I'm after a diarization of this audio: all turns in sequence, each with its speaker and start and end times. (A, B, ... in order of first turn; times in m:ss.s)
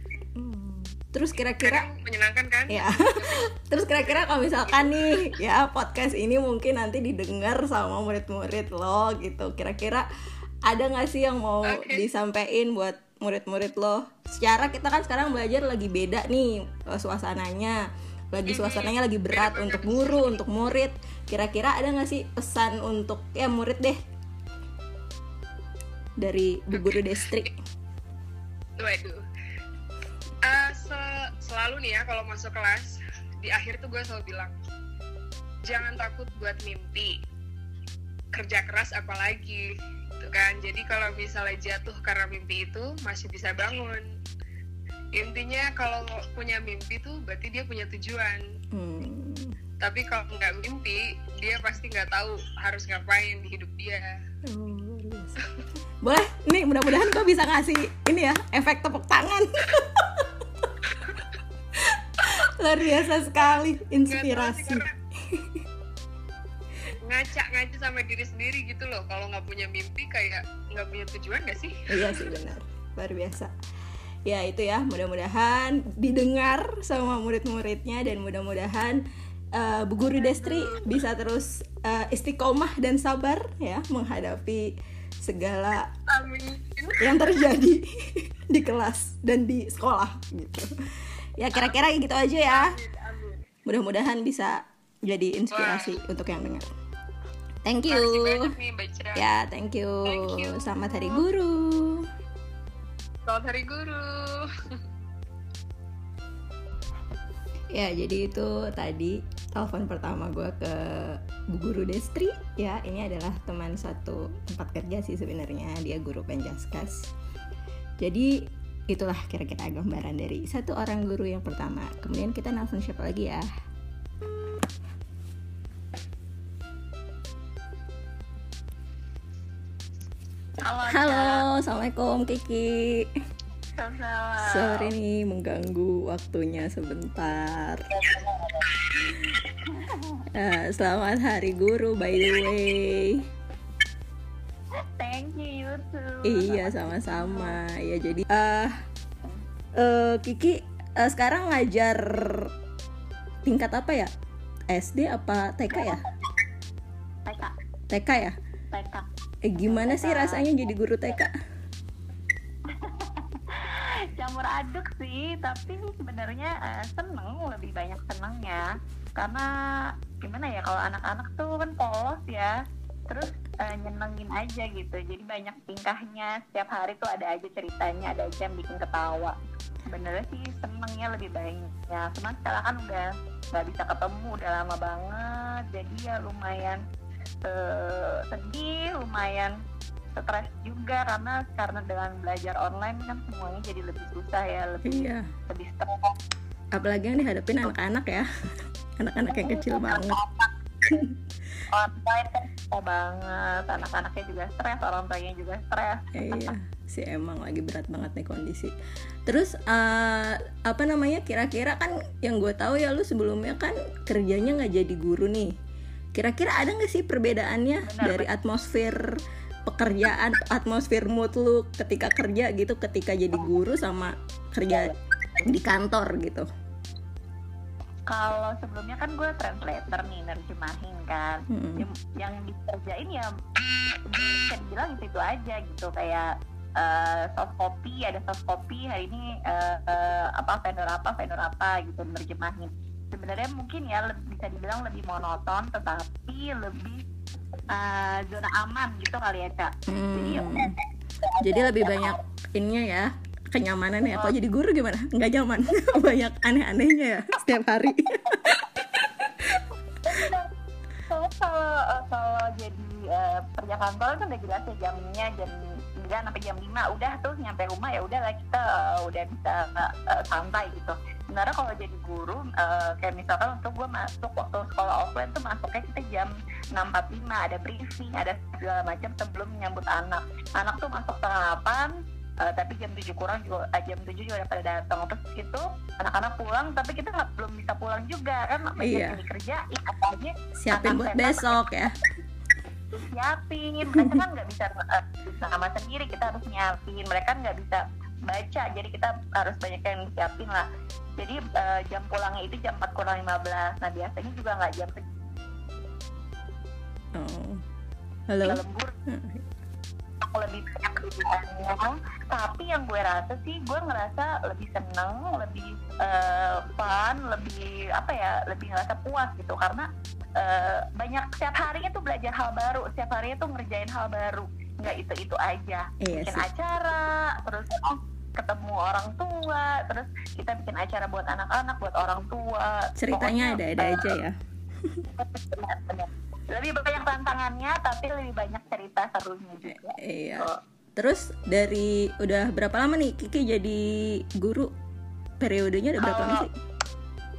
0:00.4-0:01.9 A
0:01.6-0:03.5 B
0:02.7-0:10.1 A
0:04.0-0:05.3 B
0:10.6-0:17.8 A
0:11.6-0:12.1 B
0:18.3-0:24.0 A
0:18.5-0:20.4 B
0:26.2-0:27.5 A
0:26.7-0:27.5 B
0:28.8-0:29.2 B
0:30.5-0:34.5 B
0:35.6-0:37.2 B
0:38.3-0:44.0 B
0:45.2-0:48.4 B
0:48.7-0:49.6 A
0:49.8-0:54.1 B
0:54.5-0:55.4 A
0:56.0-1:00.4 A
1:01.8-1:05.6 A
1:03.5-1:04.9 B
1:07.0-1:12.2 B
1:11.9-1:13.5 A
1:14.3-1:19.0 A
1:19.6-1:25.9 A
1:20.2-1:21.0 B
1:26.1-1:27.4 B
1:27.0-1:30.7 A
1:31.4-1:32.8 A
1:31.5-1:31.8 B
1:32.5-1:33.4 B
1:33.7-1:36.7 A
1:35.5-1:36.0 B
1:37.6-1:38.5 A
1:37.9-1:39.3 B
1:39.2-1:42.1 A
1:40.1-1:41.2 B
1:43.3-1:44.8 B
1:47.7-1:57.1 A
1:58.0-2:03.5 A
2:10.6-2:11.4 C
2:10.9-2:13.1 A
2:13.8-2:14.9 C
2:14.4-2:17.9 A
2:17.9-2:18.6 C
2:20.3-2:23.2 A
2:25.0-2:27.6 C
2:26.2-2:28.8 A
2:29.8-2:32.5 A
2:33.4-2:34.1 A
2:34.7-2:36.0 A
2:35.7-2:36.1 C
2:37.3-2:37.5 C
2:37.9-2:38.4 A
2:38.7-2:39.1 C
2:39.4-2:41.3 A
2:39.6-2:40.5 C
2:42.8-2:49.5 C
2:50.2-2:52.5 C
2:53.1-2:59.4 C
2:59.9-3:06.8 C
3:07.4-3:09.6 C
3:10.2-3:16.0 C
3:14.8-3:15.3 A
3:16.7-3:18.3 A
3:19.0-3:20.2 A
3:19.3-3:21.0 C
3:21.7-3:26.5 C
3:26.2-3:28.7 A
3:29.3-3:35.5 A
3:36.2-3:44.9 A
3:37.8-3:38.3 C
3:45.4-3:46.5 A
3:48.1-3:53.3 C
3:51.5-3:51.8 A
3:54.0-3:56.3 C
3:56.8-4:07.0 C
4:07.7-4:10.7 C
4:09.9-4:10.7 A
4:11.2-4:12.2 C
4:11.4-4:18.8 A
4:14.0-4:14.3 C
4:20.0-4:20.5 C
4:21.1-4:41.9 C
4:42.4-4:51.6 C
4:48.8-4:49.2 A
4:50.6-4:51.9 A
4:52.9-5:00.6 C
4:53.9-4:54.2 A
5:01.2-5:05.0 C
5:07.2-5:07.6 A
5:08.3-5:09.4 A
5:08.5-5:08.9 C
5:10.2-5:19.9 C
5:20.4-5:34.1 C
5:26.0-5:26.5 A
5:33.0-5:34.4 A
5:35.2-5:40.6 C
5:39.7-5:44.7 A
5:45.4-5:46.5 A
5:46.0-5:46.4 C